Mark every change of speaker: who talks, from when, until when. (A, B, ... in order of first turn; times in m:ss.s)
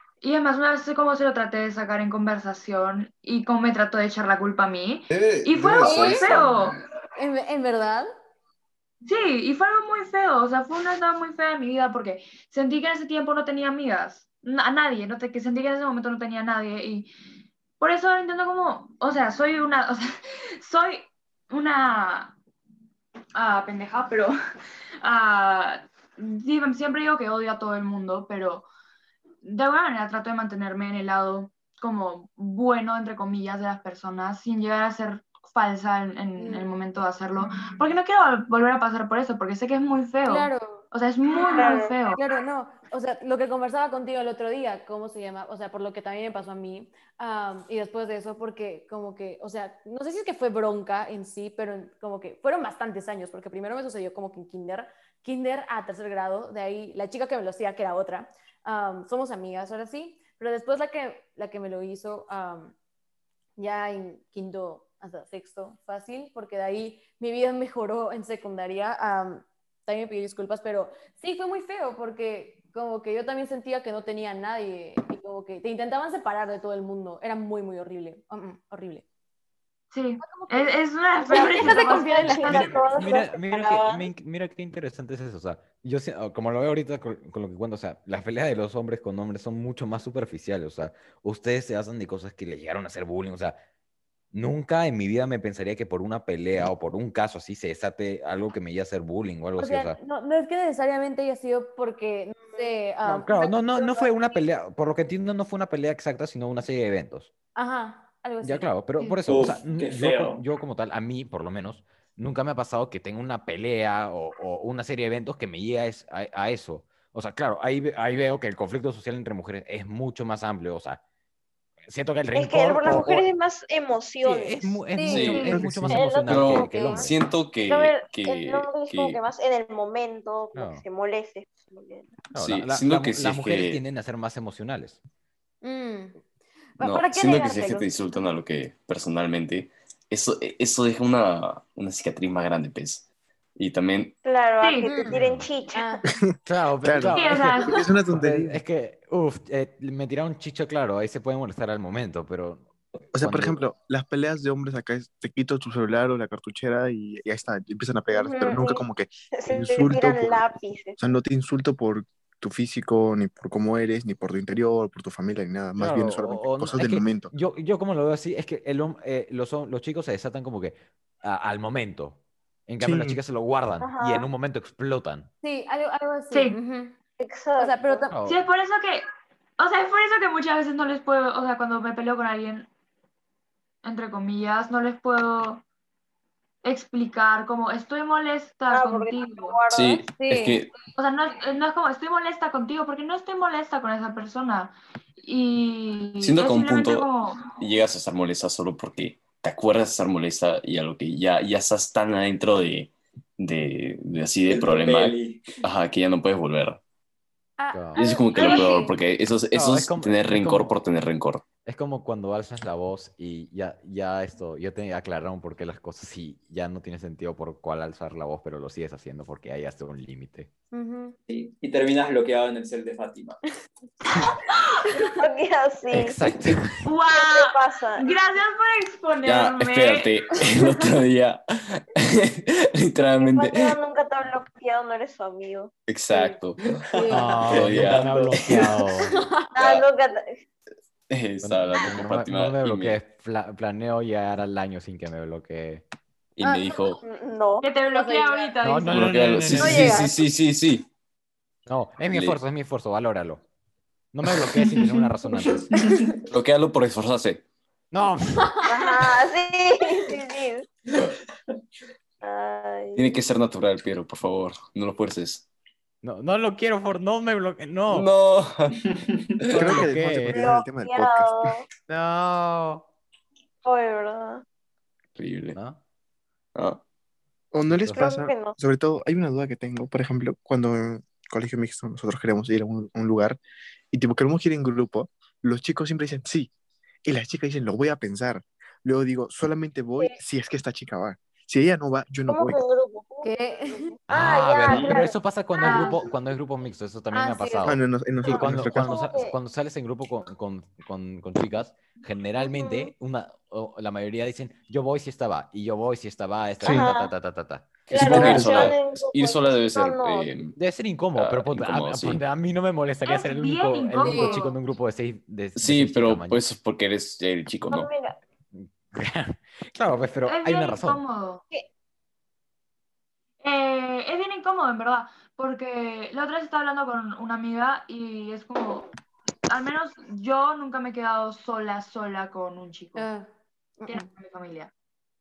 0:00.2-0:06.8 A
0:05.1-0:06.8 B
0:05.8-0:06.4 C
0:07.2-0:08.1 C
0:09.0-0:17.1 A
0:17.8-0:22.4 A
0:23.4-0:24.3 A
0:25.0-0:28.7 A
0:29.4-0:42.2 A
0:36.4-0:36.7 C
0:40.2-0:40.8 C
0:41.6-0:41.9 D
0:42.1-1:02.8 C
1:03.6-1:19.0 C
1:19.9-1:22.9 A
1:20.2-1:22.8 C
1:21.2-1:24.1 D
1:22.5-1:33.6 E
1:34.3-1:40.0 E
1:39.6-1:44.1 C
1:43.0-1:47.3 E
1:47.6-1:49.2 C
1:48.4-2:01.0 E
1:49.2-1:50.4 F
2:01.9-2:03.3 E
2:02.3-2:04.8 D
2:04.2-2:07.1 E
2:04.9-2:05.4 C
2:05.0-2:05.6 B
2:05.2-2:05.6 A
2:05.5-2:06.1 G
2:05.9-2:07.1 D
2:06.3-2:09.2 B
2:07.6-2:12.2 D
2:10.6-2:10.8 E
2:12.3-2:15.0 E
2:12.4-2:13.8 B
2:15.6-2:16.2 C
2:16.8-2:17.9 C
2:16.8-2:23.0 B
2:23.6-2:24.2 B
2:24.2-2:26.0 D
2:24.6-2:24.9 A
2:24.8-2:25.2 C
2:25.0-2:25.5 E
2:25.7-2:26.0 C
2:26.1-2:28.6 G
2:26.4-2:33.6 E
2:27.1-2:27.8 A
2:33.1-2:40.4 G
2:38.1-2:38.8 D
2:39.4-2:41.0 D
2:41.0-2:47.3 G
2:45.8-2:55.3 E
2:52.8-2:53.2 G
2:53.8-2:54.3 D
2:55.4-2:57.0 C
2:56.3-2:56.6 A
2:57.2-2:58.1 D
2:57.6-2:58.2 C
2:58.1-2:58.4 E
2:58.3-2:59.1 A
2:59.6-3:02.7 A
3:03.8-3:05.6 A
3:06.6-3:09.6 A
3:08.7-3:10.1 D
3:09.7-3:10.7 B
3:10.1-3:10.6 C
3:11.0-3:17.5 A
3:16.2-3:17.1 B
3:17.6-3:26.8 B
3:24.5-3:25.6 F
3:27.6-3:29.0 C
3:27.7-3:28.1 E
3:28.0-3:31.4 B
3:28.4-3:28.7 A
3:29.5-3:30.8 E
3:31.6-3:40.5 E
3:40.7-3:41.2 C
3:41.3-3:43.4 F
3:45.2-3:46.2 D
3:45.9-3:46.9 E
3:46.8-3:50.1 A
3:47.1-3:48.1 D
3:49.2-3:53.8 B
3:53.2-3:55.7 D
3:55.9-3:56.6 B
3:56.8-3:58.7 F
3:56.9-3:57.4 C
3:57.1-3:59.2 E
3:57.5-3:58.7 B
3:59.0-3:59.5 C
3:59.6-4:00.4 D
3:59.6-3:59.8 B
4:01.1-4:03.0 B
4:01.4-4:05.8 E
4:06.4-4:07.0 B
4:06.4-4:07.0 C
4:07.0-4:07.7 D
4:07.6-4:09.1 A
4:07.9-4:08.5 C
4:08.6-4:10.1 E
4:08.9-4:10.9 B
4:09.6-4:10.0 C
4:09.6-4:10.2 D
4:11.7-4:13.4 E
4:12.1-4:12.4 B
4:14.1-4:15.7 E
4:15.4-4:16.2 F
4:16.3-4:17.4 B
4:17.9-4:18.6 E
4:18.4-4:18.7 C
4:18.7-4:20.7 D
4:22.2-4:23.2 D
4:23.0-4:25.5 B
4:26.0-4:28.1 E
4:27.9-4:28.8 B
4:28.9-4:29.3 F
4:29.4-4:29.8 B
4:29.5-4:30.5 E
4:29.5-4:31.5 G
4:30.3-4:31.7 D
4:31.9-4:32.8 E
4:33.6-4:34.4 D
4:35.2-4:35.6 B
4:35.5-4:35.8 E
4:36.6-4:36.8 B
4:37.5-4:43.4 G
4:37.9-4:38.6 D
4:43.9-4:46.5 G
4:47.0-4:52.6 G
4:52.3-4:56.0 D
4:53.2-4:53.9 C
4:54.1-5:08.6 E
4:54.7-4:55.0 F
4:55.6-4:56.0 C
4:57.1-4:57.7 C
4:57.7-4:59.0 G
4:58.3-4:59.4 D
5:02.4-5:02.9 D
5:06.6-5:06.9 G
5:06.6-5:07.1 D
5:07.9-5:10.6 B
5:07.9-5:10.3 D
5:08.0-5:08.7 G
5:10.6-5:16.4 E
5:11.2-5:12.2 B
5:13.0-5:14.6 A
5:14.0-5:14.5 C
5:15.6-5:17.9 B
5:17.7-5:18.2 D
5:18.5-5:21.0 E
5:20.2-5:21.4 A
5:23.4-5:28.9 A
5:29.5-5:33.1 A
5:33.0-5:34.1 C
5:33.9-5:34.7 A